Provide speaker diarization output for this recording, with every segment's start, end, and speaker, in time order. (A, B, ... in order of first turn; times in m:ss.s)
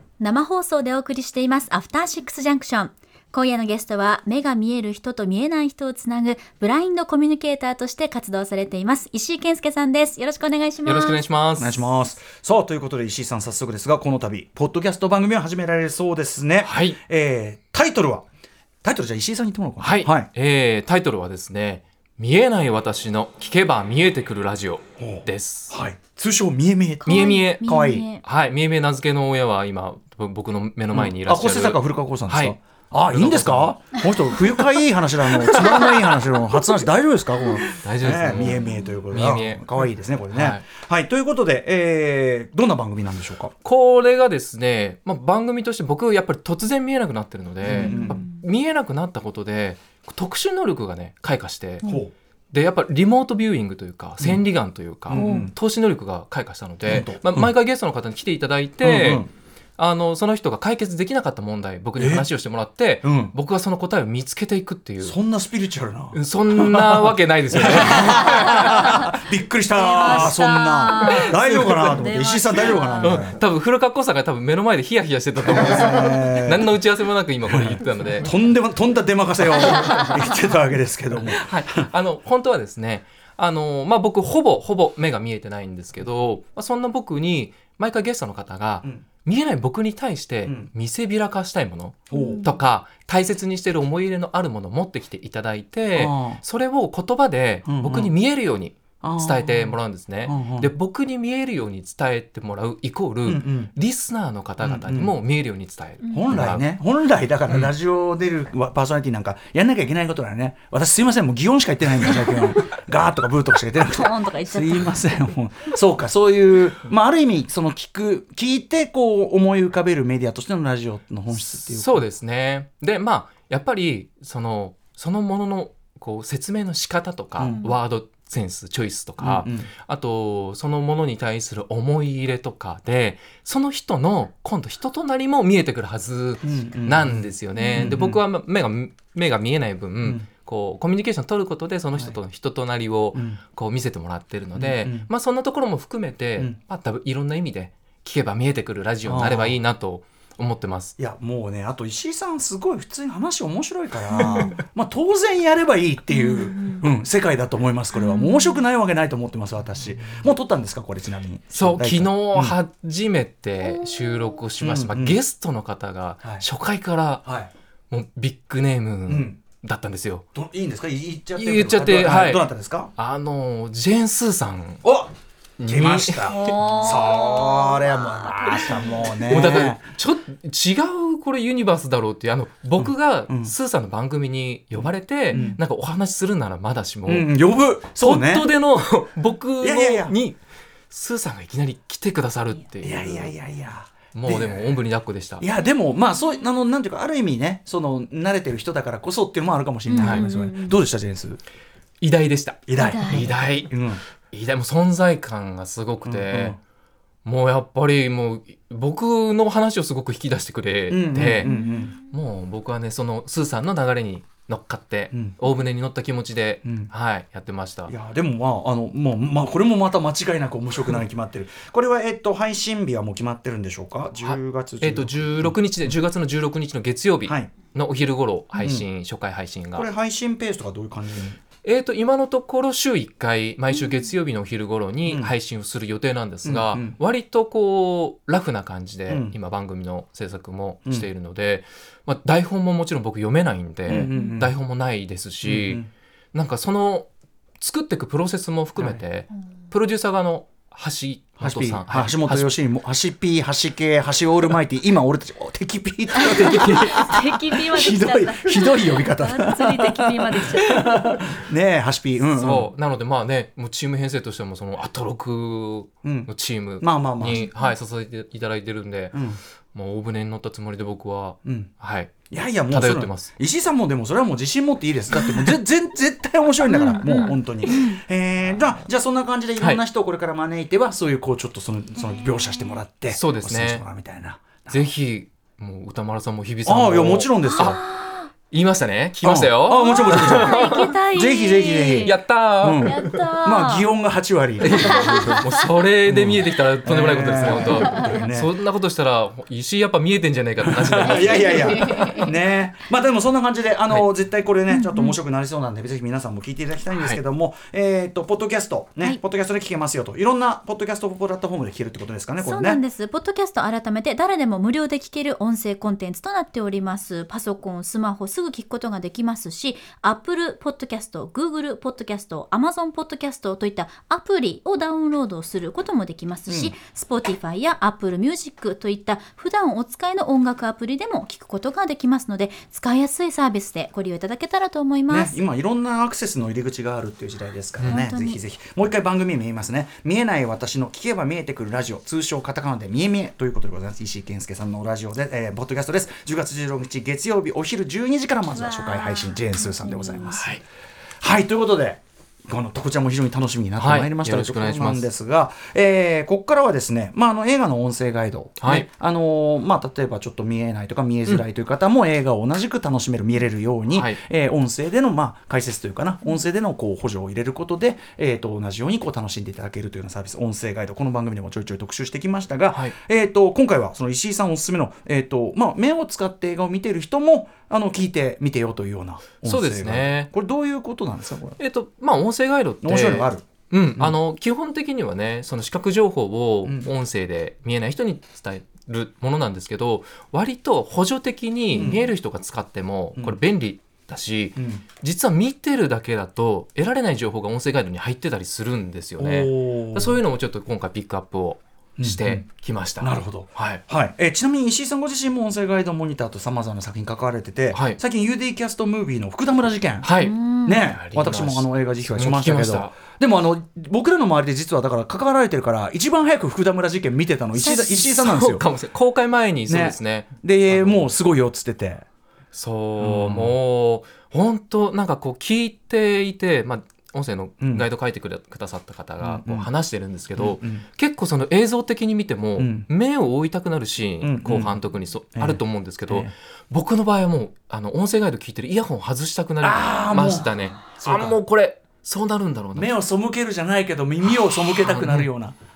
0:00.2-0:11.2 A
0:10.8-0:11.8 B
0:11.6-0:18.2 C
0:16.6-0:17.0 B
0:18.8-0:20.3 C
0:19.8-0:25.7 B
0:25.0-0:28.1 C
0:27.0-0:28.2 A
0:27.0-0:32.6 B
0:30.9-0:43.5 C
0:33.1-0:33.9 B
0:35.5-0:36.1 B
0:37.8-0:39.6 B
0:40.3-0:40.6 B
0:43.6-0:51.9 B
0:47.6-0:48.2 C
0:47.7-0:48.4 A
0:51.8-0:52.1 C
0:52.5-1:05.2 B
0:55.1-0:55.5 C
0:55.1-0:55.5 A
0:56.8-0:57.5 C
0:58.8-0:59.3 C
1:02.0-1:02.2 C
1:03.0-1:03.3 C
1:05.0-1:13.4 C
1:06.1-1:09.0 B
1:08.1-1:08.8 A
1:09.7-1:13.2 A
1:09.9-1:10.3 B
1:10.9-1:12.0 B
1:13.0-1:18.3 B
1:15.5-1:16.7 C
1:17.5-1:21.8 C
1:21.3-1:46.6 B
1:30.4-1:30.7 C
1:32.1-1:32.4 C
1:32.1-1:32.5 A
1:35.9-1:36.4 C
1:37.6-1:38.1 C
1:39.0-1:40.7 C
1:43.2-1:43.7 C
1:44.6-1:45.1 C
1:46.0-1:46.3 A
1:46.1-2:02.0 C
1:52.2-1:52.6 A
1:53.8-1:55.0 A
2:01.6-2:30.9 B
2:07.4-2:07.7 A
2:09.2-2:09.7 C
2:16.4-2:18.2 C
2:17.6-2:17.9 A
2:23.1-2:23.4 C
2:24.6-2:25.1 C
2:29.0-2:29.6 C
2:31.0-2:42.6 C
2:34.2-2:34.6 A
2:36.1-2:36.8 A
2:37.9-2:38.6 A
2:41.5-2:47.3 B
2:43.6-2:44.4 A
2:44.6-2:45.2 C
2:47.2-2:47.5 C
2:47.9-2:50.2 B
2:49.1-2:49.4 C
2:50.3-2:52.9 C
2:51.4-2:54.8 B
2:54.8-2:55.1 C
2:55.6-2:56.5 B
2:55.6-2:59.8 C
2:56.3-2:58.0 A
2:59.2-3:07.3 B
3:02.8-3:03.5 C
3:04.8-3:05.6 C
3:07.0-3:08.5 C
3:08.0-3:10.4 B
3:09.6-3:10.1 C
3:10.9-3:13.3 B
3:12.8-3:14.8 C
3:14.1-3:15.4 B
3:15.4-3:21.4 C
3:19.9-3:20.8 A
3:20.0-3:20.2 B
3:22.0-3:26.6 B
3:22.7-3:24.0 C
3:22.8-3:23.3 A
3:26.0-3:26.6 C
3:27.2-3:31.5 B
3:30.9-3:31.9 C
3:31.4-3:31.9 A
3:32.0-3:37.9 B
3:36.6-3:36.9 C
3:37.9-3:45.6 C
3:44.2-3:49.9 B
3:47.2-3:47.5 C
3:49.7-3:51.4 C
3:51.6-4:07.1 B
3:55.0-3:55.3 C
3:56.4-3:57.0 C
3:59.1-3:59.3 C
4:03.8-4:04.5 C
4:03.9-4:04.4 A
4:05.4-4:05.9 C
4:07.6-4:12.5 B
4:08.8-4:09.0 C
4:11.4-4:22.7 C
4:16.2-4:21.2 A
4:16.5-4:16.9 B
4:22.3-4:29.2 B
4:26.0-4:27.4 C
4:27.3-4:27.7 A
4:29.1-4:29.4 C
4:29.7-4:33.3 B
4:31.4-4:31.7 C
4:32.3-4:44.8 C
4:36.6-4:38.0 A
4:43.1-4:43.8 B
4:44.7-4:47.8 B
4:46.6-4:47.8 C
4:47.4-4:48.3 A
4:48.5-4:50.9 B
4:49.2-4:55.4 C
4:49.8-4:52.1 A
4:52.0-4:53.2 B
4:52.8-4:53.9 A
4:54.6-5:02.1 B
4:54.7-4:55.6 A
4:56.1-4:58.5 C
4:57.8-4:58.2 A
5:00.6-5:12.8 C
5:01.1-5:02.3 A
5:04.7-5:05.2 A
5:06.9-5:07.2 B
5:12.4-5:35.4 A
5:26.5-5:26.7 C
5:35.1-5:50.5 C
5:37.8-5:38.0 B
5:37.9-5:38.4 A
5:48.5-5:50.3 A
5:50.3-5:50.6 B
5:51.2-6:21.6 C
5:53.8-5:55.0 B
5:58.6-5:58.9 B
6:03.9-6:04.2 B
6:19.4-6:20.3 B
6:21.6-6:43.8 B
6:22.8-6:23.4 C
6:31.8-6:32.1 C
6:34.6-6:34.8 C
6:39.2-6:40.2 C
6:42.0-6:42.4 C
6:43.0-6:50.1 C
6:47.7-6:48.0 B
6:50.0-6:53.0 B
6:50.2-6:50.9 A
6:50.6-6:58.6 C
6:57.6-6:58.0 A
6:57.6-7:01.1 B
6:59.7-7:02.0 C
7:02.5-7:22.9 B
7:03.0-7:03.6 C
7:07.6-7:07.8 C
7:09.2-7:09.7 C
7:10.3-7:10.8 C
7:12.6-7:12.9 C
7:14.2-7:14.8 C
7:15.4-7:16.3 C
7:19.6-7:21.4 C
7:22.8-7:25.6 C
7:24.3-7:25.3 B